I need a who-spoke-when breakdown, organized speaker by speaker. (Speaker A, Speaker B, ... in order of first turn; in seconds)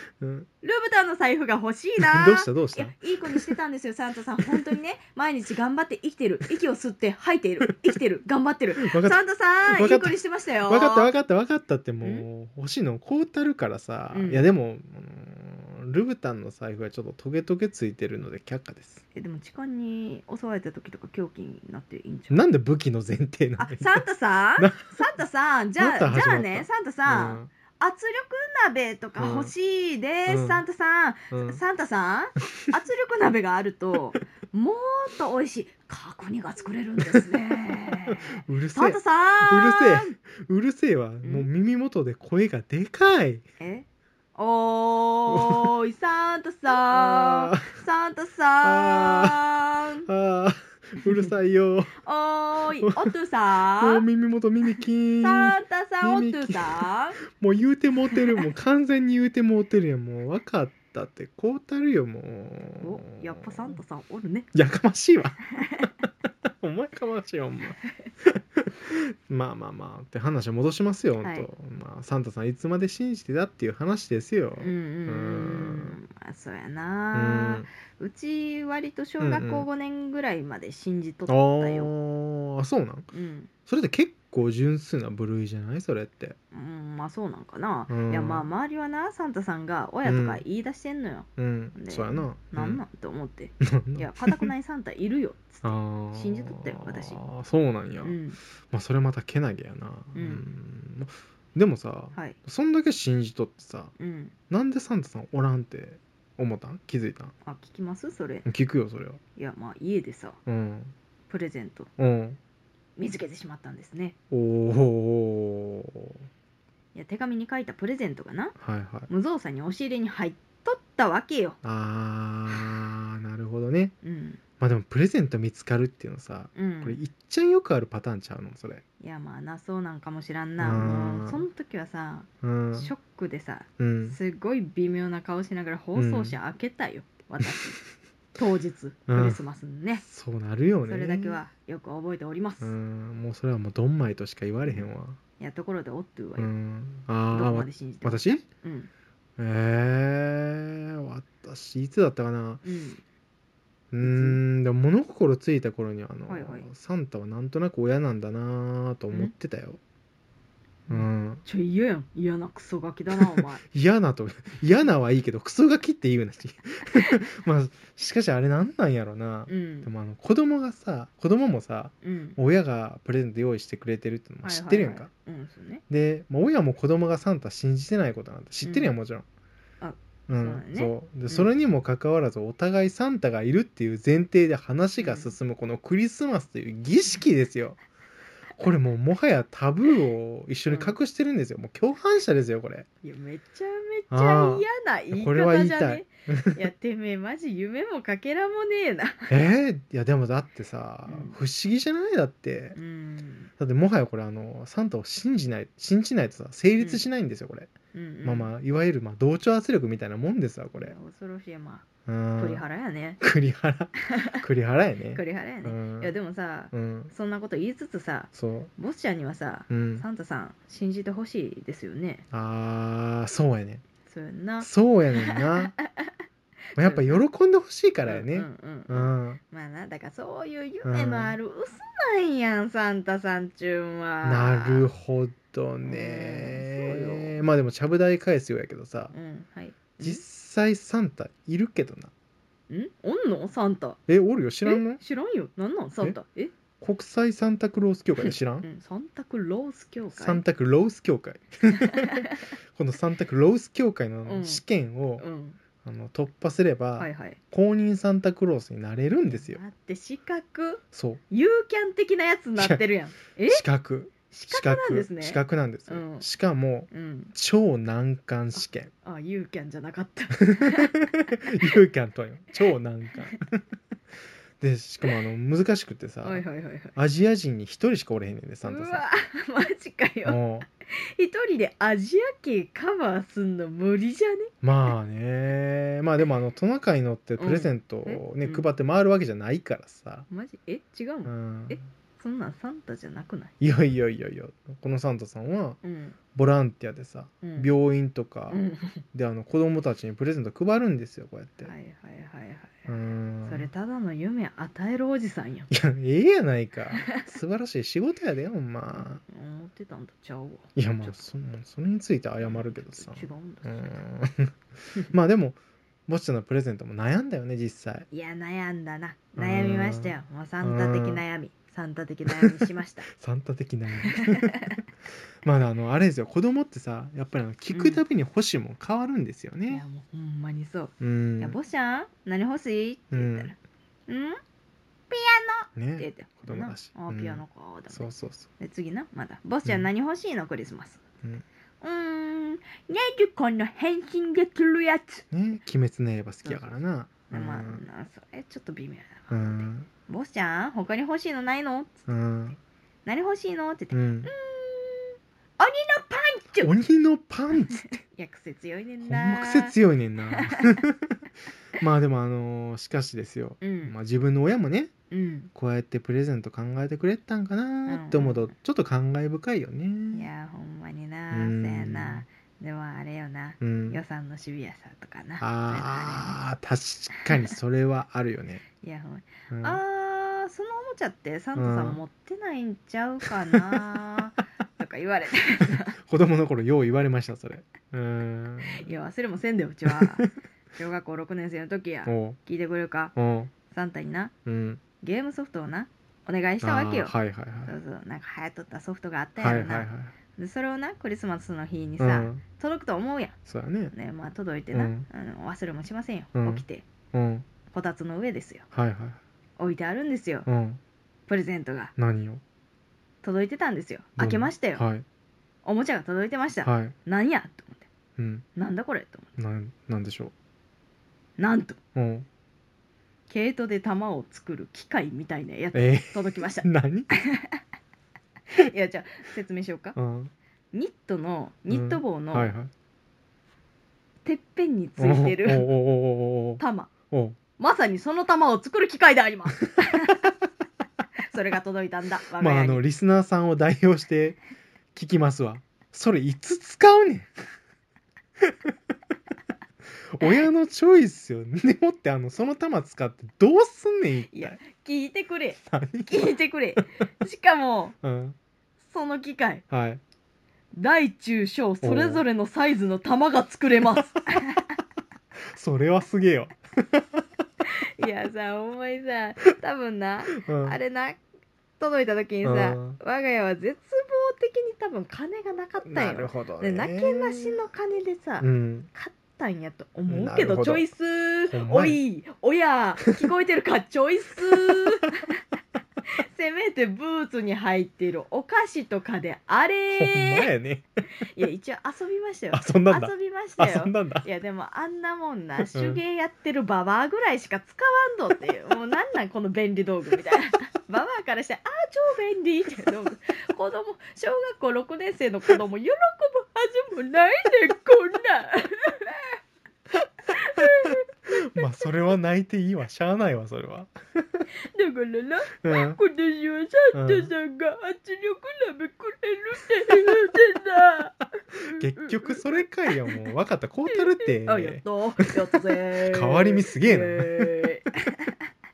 Speaker A: 0.2-0.5, 2.0-3.5, 4.5-4.7, 8.8-19.0, 22.3-24.0, 24.6-25.1, 25.8-27.5, 29.2-29.5, 30.3-30.6, 31.3-31.6, 38.0-43.4, 45.3-45.7, 46.7-47.7, 48.6-49.4, 50.0-52.0, 52.8-53.1, 53.8-63.8, 64.5-65.9, 66.5-76.0, 77.1-77.7, 79.2-79.7, 81.3-83.1, 83.7-86.3, 87.9-88.5, 90.0-90.4, 91.4-92.8, 93.6-94.5, 95.6-98.2, 98.7-103.9, 104.5-107.3, 108.4-109.2, 110.5-110.9, 112.0-112.4, 114.3-116.2, 118.6-119.1, 121.6-123.9, 124.6-128.8, 130.6-131.4, 132.4-132.9, 133.8-134.2, 135.9-136.3, 139.1-139.4, 140.0-141.4, 142.6-145.2, 146.4-148.4, 149.4-152.6, 153.9-159.8, 160.9-161.4, 163.2-175.1, 175.9-179.2, 180.3-187.8, 188.6-192.9, 194.1-196.6, 199.3-202.8, 203.6-207.7, 208.2-210.9, 212.1-212.6, 213.2-216.1, 216.7-217.1, 218.3-218.7, 219.7-220.0, 222.3-223.8, 224.6-225.7, 226.8-229.4, 230.8-231.4, 234.2-239.1, 240.0-242.1, 244.1-245.0, 246.8-248.7, 250.1-255.2, 255.8-259.6, 260.9-261.2, 262.6-262.8, 263.5-268.9, 270.4-273.6, 274.6-279.0, 280.2-280.6, 284.6-290.2, 291.2-291.8, 293.6-295.8, 296.3-298.6, 299.1-301.7, 302.9-303.7, 305.7-309.2, 310.8-314.5, 315.1-318.1, 319.4-321.2, 323.1-324.8, 325.4-329.8, 331.0-331.6, 333.1-333.5, 335.8-338.5, 345.3-347.8, 349.3-349.9, 352.1-352.6, 353.9-354.3, 356.6-358.0, 359.0-361.2, 361.8-364.9, 365.5-370.3, 371.3-372.2, 373.6-374.0, 375.4-378.6, 379.5-379.8, 381.6-382.0, 383.2-383.8, 385.7-388.9, 389.9-390.3, 392.1-392.4, 393.1-393.5, 394.4-394.8, 396.6-397.7, 399.4-400.1, 402.0-402.4, 403.5-403.9, 404.7-405.0, 406.3-407.4, 408.7-409.2, 410.5-410.8, 412.0-412.4, 414.2-415.0, 416.6-416.9, 418.2-418.4, 419.4-420.3, 421.9-422.2, 425.7-427.1, 429.9-430.3, 431.7-432.7, 435.0-437.4, 439.8-440.1, 442.4-444.4, 444.9-447.4, 448.4-448.7, 450.1-454.6, 455.6-456.4, 458.0-458.4, 459.7-460.0, 461.8-462.2, 465.5-467.2, 470.3-470.8, 472.4-473.0, 475.8-477.6, 478.4-478.9, 480.1-480.9, 481.5-482.0, 489.9-490.9, 492.5-494.3, 495.7-496.0, 511.4-514.4, 515.6-516.0, 516.9-517.3, 521.6-527.6
Speaker B: 0.6-11.1, 14.1-14.5, 19.1-22.4, 23.6-40.1, 41.2-41.5, 43.6-50.1, 52.0-54.0, 55.2-57.2, 58.1-58.4, 62.8-64.5, 67.8-68.1, 71.2-71.5, 74.6-81.9, 83.1-83.5, 86.5-97.2, 98.0-98.4, 100.1-100.4, 104.0-104.3, 107.4-108.5, 109.3-110.4, 111.3-111.9, 113.0-114.1, 116.9-118.5, 119.1-121.6, 124.0-124.4, 126.5-127.0, 129.0-137.8, 138.3-140.0, 140.8-142.7, 145.4-146.5, 147.3-148.9, 152.6-153.0, 154.0-154.4, 156.3-156.7, 160.9-163.6, 169.5-169.9, 172.0-172.4, 174.4-175.8, 178.6-178.9, 179.8-181.5, 185.0-185.3, 190.7-190.9, 193.0-199.3, 201.1-201.3, 202.7-203.5, 206.8-207.0, 207.9-208.5, 210.8-211.8, 212.4-213.2, 214.1-214.4, 215.1-222.2, 224.1-226.1, 226.8-227.2, 228.0-234.9, 235.8-237.4, 239.1-240.2, 242.7-244.0, 244.6-246.5, 248.2-250.4, 251.8-252.4, 254.2-254.6, 255.2-255.6, 257.0-257.4, 259.2-263.6, 264.3-266.2, 266.9-267.3, 269.0-270.9, 276.2-276.9, 278.6-284.5, 287.4-288.7, 290.3-293.5, 295.8-296.2, 297.4-297.7, 298.5-299.0, 301.6-305.7, 308.9-311.3, 312.4-314.0, 318.1-323.1, 324.0-324.8, 327.7-328.0, 329.7-333.6, 334.1-334.4, 335.1-341.0, 341.8-345.2, 346.4-346.8, 347.3-352.0, 353.0-356.7, 357.6-359.8, 360.3-360.8, 363.6-363.9, 365.1-365.5, 367.9-368.5, 370.1-376.4, 378.8-385.9, 388.7-393.1, 393.7-394.3, 395.0-397.1, 397.6-403.4, 403.9-406.9, 407.7-408.7, 409.6-410.5, 411.3-411.9, 413.2-414.8, 415.6-417.9, 418.5-419.3, 421.4-421.8, 423.3-427.6, 428.5-430.0, 430.7-432.5, 434.2-435.7, 436.6-436.9, 437.6-440.2, 441.3-442.8, 454.3-457.9, 458.8-459.6, 460.7-464.7, 468.0-471.2, 471.8-485.2, 486.1-490.5, 491.2-509.4, 510.2-511.8, 514.6-523.1, 523.9-528.4